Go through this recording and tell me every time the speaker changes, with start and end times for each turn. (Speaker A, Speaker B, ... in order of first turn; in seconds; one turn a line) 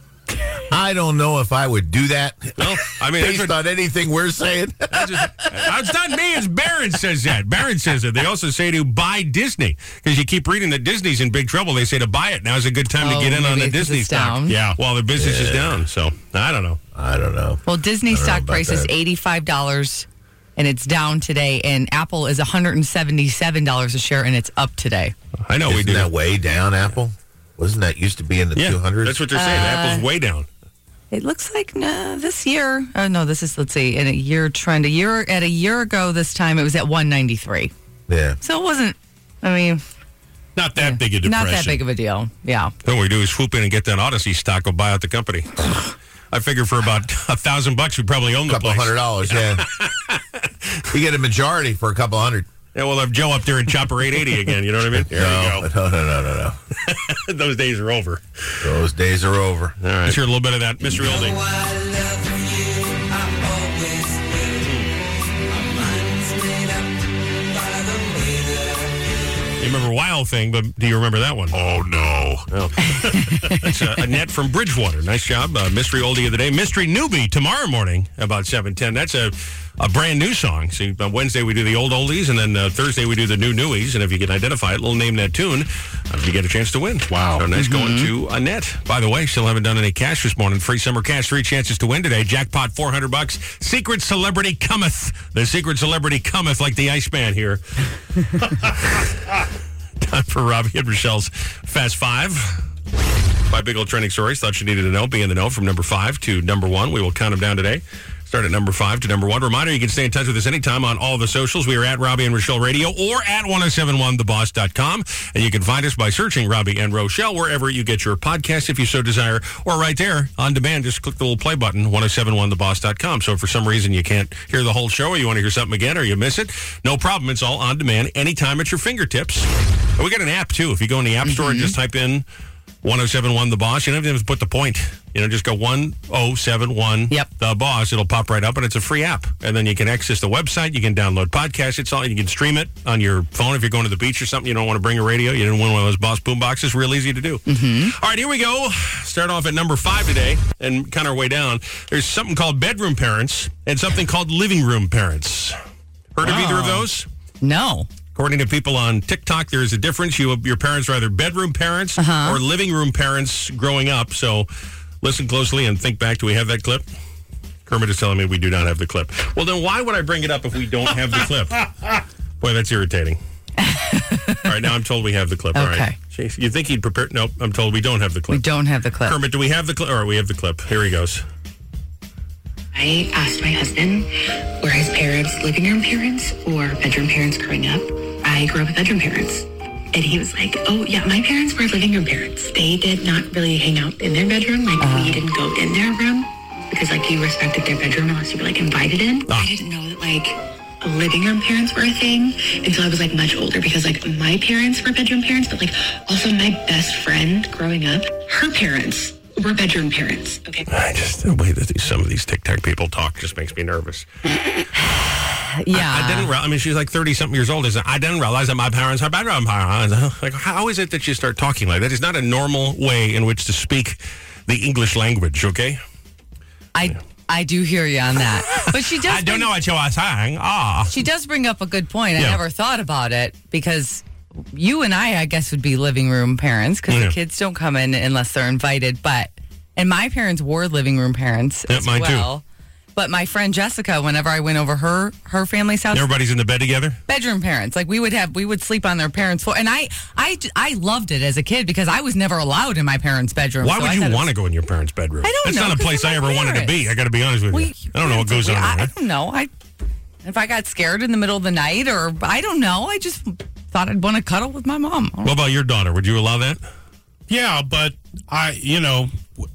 Speaker A: 0.7-5.7
Speaker B: 2.6-3.5
Speaker B: 4.9-16.8
Speaker C: 13.0-14.6
Speaker D: 14.5-14.8
Speaker A: 15.2-15.8
Speaker A: 16.9-18.9
Speaker C: 17.6-20.1
Speaker C: 20.6-25.1
Speaker B: 25.5-26.1
Speaker A: 25.6-29.2
Speaker B: 28.5-30.5
Speaker C: 29.3-30.0
Speaker C: 31.1-37.7
Speaker A: 38.1-38.4
Speaker C: 38.4-39.8
Speaker D: 40.5-41.8
Speaker C: 40.8-42.7
Speaker B: 42.8-45.8
Speaker B: 46.3-50.8
Speaker A: 48.5-49.7
Speaker A: 50.9-52.5
Speaker B: 52.7-55.6
Speaker A: 54.9-56.6
Speaker B: 56.8-58.6
Speaker A: 58.6-59.8
Speaker B: 59.8-61.4
Speaker B: 64.6-64.9
Speaker B: 69.6-71.6
Speaker B: 72.5-97.6
Speaker C: 73.0-73.6
Speaker D: 87.1-87.5
Speaker C: 87.5-88.1
Speaker B: 98.3-99.4
Speaker B: 100.0-102.7
Speaker B: 103.5-132.2
Speaker C: 131.2-131.7
Speaker B: 132.8-155.6
Speaker C: 147.5-147.9
Speaker B: 156.1-157.1
Speaker C: 156.2-156.8
Speaker C: 157.4-157.9
Speaker B: 158.1-164.5
Speaker C: 162.0-162.4
Speaker B: 165.0-166.8
Speaker B: 167.7-171.7
Speaker B: 172.4-173.2
Speaker C: 173.6-174.5
Speaker B: 174.4-178.4
Speaker C: 175.5-175.9
Speaker C: 178.3-179.2
Speaker B: 179.0-181.2
Speaker E: 182.7-210.7
Speaker C: 194.8-195.2
Speaker B: 210.7-214.1
Speaker C: 215.4-216.3
Speaker B: 215.7-225.8
Speaker C: 226.7-229.5
Speaker B: 228.5-230.9
Speaker C: 230.9-242.4
Speaker B: 236.9-237.1
Speaker B: 241.7-242.3
Speaker C: 242.9-246.1
Speaker B: 245.9-247.0
Speaker C: 247.1-254.3
Speaker B: 253.6-258.9
Speaker C: 255.2-256.7
Speaker C: 257.5-259.5
Speaker C: 260.2-265.4
Speaker B: 265.2-266.6
Speaker D: 267.3-269.2